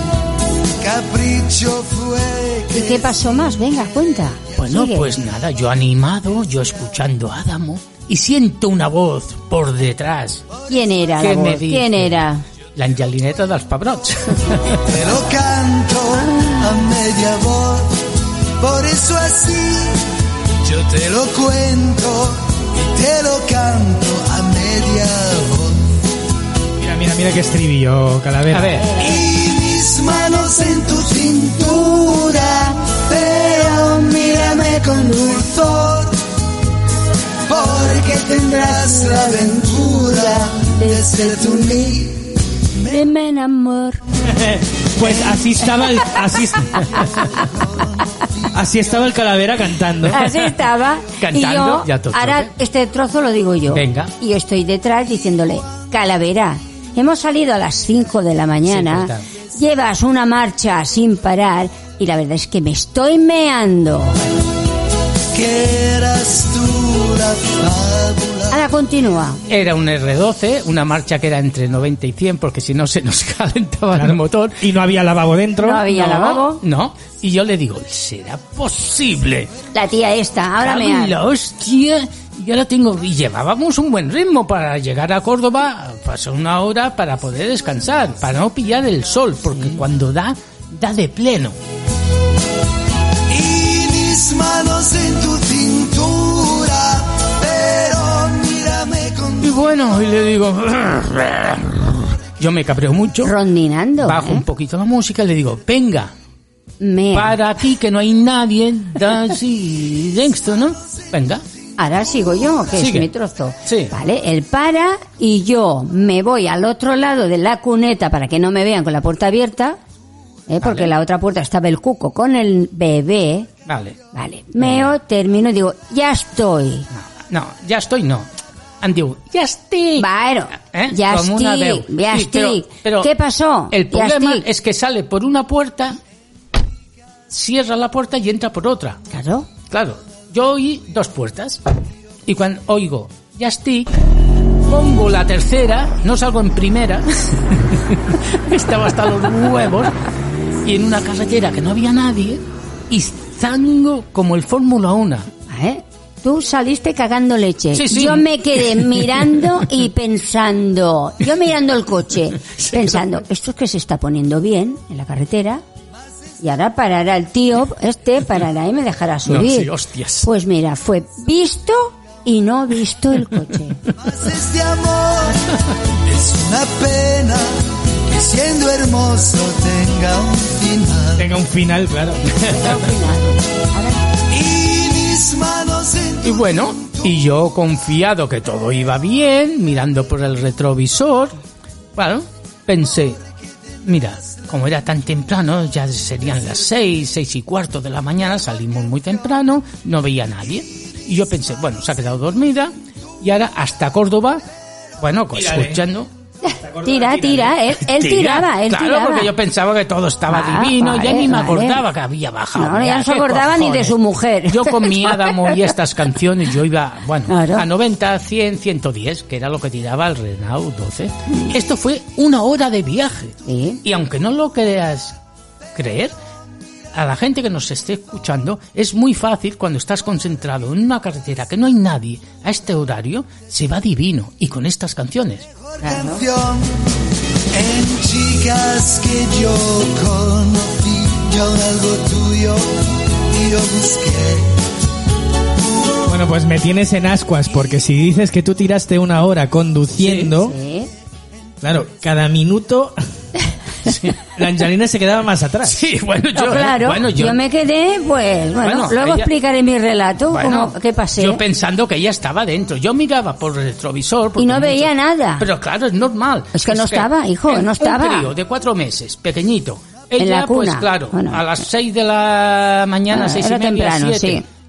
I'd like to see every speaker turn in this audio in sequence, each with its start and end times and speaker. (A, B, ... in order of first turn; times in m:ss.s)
0:00.8-0:03.2 A
0:02.7-0:05.1 B
0:04.6-0:10.4 C
0:10.7-0:12.4 B
0:11.2-0:12.2 C
0:12.8-0:14.8 C
0:14.8-0:18.0 A
0:18.6-0:20.0 A
0:20.6-0:25.9 A
0:26.8-0:28.8 D
0:28.5-0:28.9 C
0:28.9-0:36.2 A
0:37.5-0:43.0 A
0:38.8-0:41.9 B
0:42.9-0:44.0 B
0:44.2-0:47.0 D
0:45.0-0:45.9 A
0:46.9-0:47.4 B
0:47.3-0:48.5 A
0:48.5-0:50.2 D
0:50.1-1:04.2 B
0:50.2-0:50.6 C
0:51.2-0:52.5 C
0:53.7-0:54.1 C
0:58.7-0:59.2 C
1:05.3-1:08.6 A
1:08.5-1:09.4 B
1:09.5-1:14.7 C
1:13.9-1:15.8 D
1:15.6-1:16.6 B
1:15.8-1:19.5 C
1:19.7-1:21.1 B
1:20.6-1:31.6 C
1:29.5-1:29.8 B
1:33.3-1:39.6 A
1:39.4-1:43.3 C
1:43.2-1:44.4 B
1:44.0-1:46.1 C
1:46.8-1:47.4 B
1:47.1-1:51.4 C
1:51.8-1:59.8 B
1:52.8-1:53.1 C
1:53.6-1:53.9 C
2:00.5-2:03.5 B
2:00.6-2:00.9 C
2:03.7-2:04.0 C
2:04.1-2:06.9 B
2:04.6-2:04.9 C
2:06.9-2:08.3 C
2:08.8-2:10.1 C
2:10.0-2:14.4 B
2:10.6-2:13.1 C
2:13.7-2:16.0 C
2:17.3-2:19.0 C
2:19.1-2:19.5 B
2:19.7-2:21.6 C
2:22.2-2:23.9 C
2:24.6-2:29.9 C
2:30.6-2:35.3 C
2:35.5-2:45.6 B
2:37.7-2:39.6 C
2:42.6-2:43.2 C
2:46.4-2:49.7 B
2:49.3-2:50.3 C
2:50.2-2:53.8 B
2:54.0-3:01.2 A
3:01.2-3:02.7 D
3:02.4-3:04.0 B
3:04.3-3:07.1 A
3:06.2-3:11.4 C
3:12.0-3:13.2 C
3:13.8-3:24.4 C
3:25.0-3:26.1 C
3:25.3-3:25.8 D
3:26.4-3:29.3 B
3:26.6-3:27.5 D
3:27.8-3:34.0 C
3:30.3-3:31.8 B
3:32.5-3:35.6 B
3:34.5-3:45.2 C
3:37.3-3:37.6 B
3:43.4-3:43.8 B
3:45.7-3:46.1 C
3:46.9-3:55.5 C
3:55.7-3:56.8 A
3:55.8-3:56.2 B
3:57.5-4:04.5 A
4:06.1-4:10.5 D
4:10.0-4:10.3 C
4:10.3-4:10.9 B
4:11.6-4:13.0 D
4:13.8-4:14.3 C
4:14.4-4:15.9 D
4:15.6-4:17.4 C
4:16.3-4:21.4 B
4:18.6-4:19.3 C
4:20.3-4:34.4 C
4:24.4-4:25.4 B
4:26.5-4:28.3 B
4:30.2-4:31.4 B
4:33.1-4:34.4 B